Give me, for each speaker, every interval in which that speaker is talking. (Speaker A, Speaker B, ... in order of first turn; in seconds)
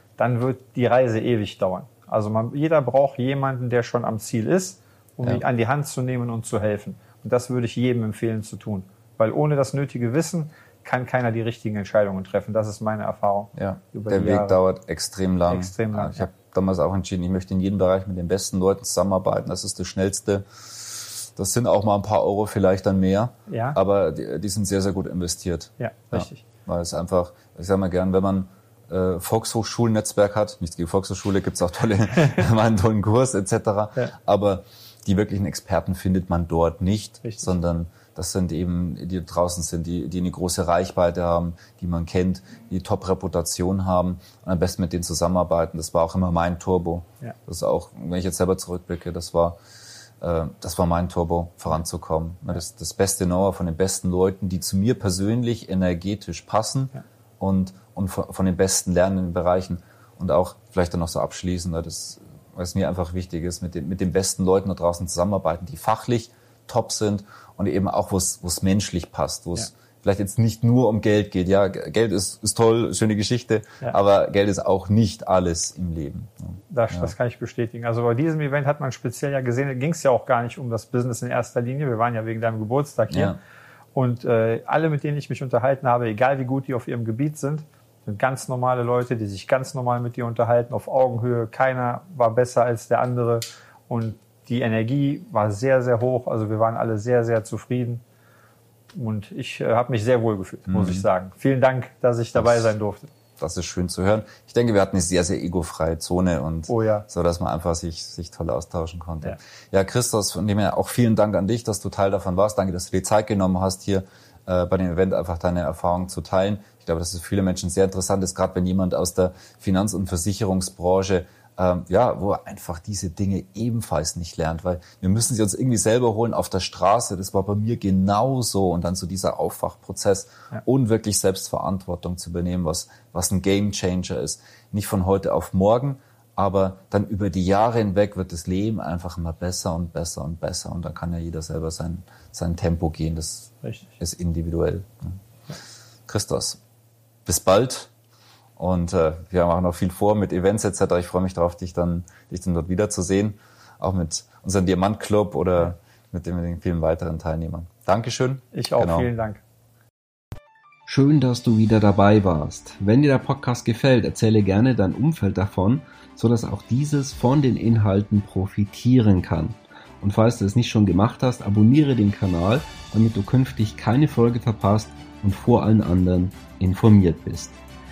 Speaker A: 0.2-14.6, 15.5-16.3, 23.5-23.8, 25.8-26.4, 37.2-37.5, 76.7-83.4, 83.9-98.0, 99.0-103.1, 106.7-107.1, 158.5-159.4
Speaker B: 13.6-49.6, 50.2-77.1, 83.1-83.4, 100.7-101.1, 102.3-102.7, 103.4-145.2, 146.1-146.6, 147.3-147.9, 148.6-159.1
Speaker C: 160.9-177.6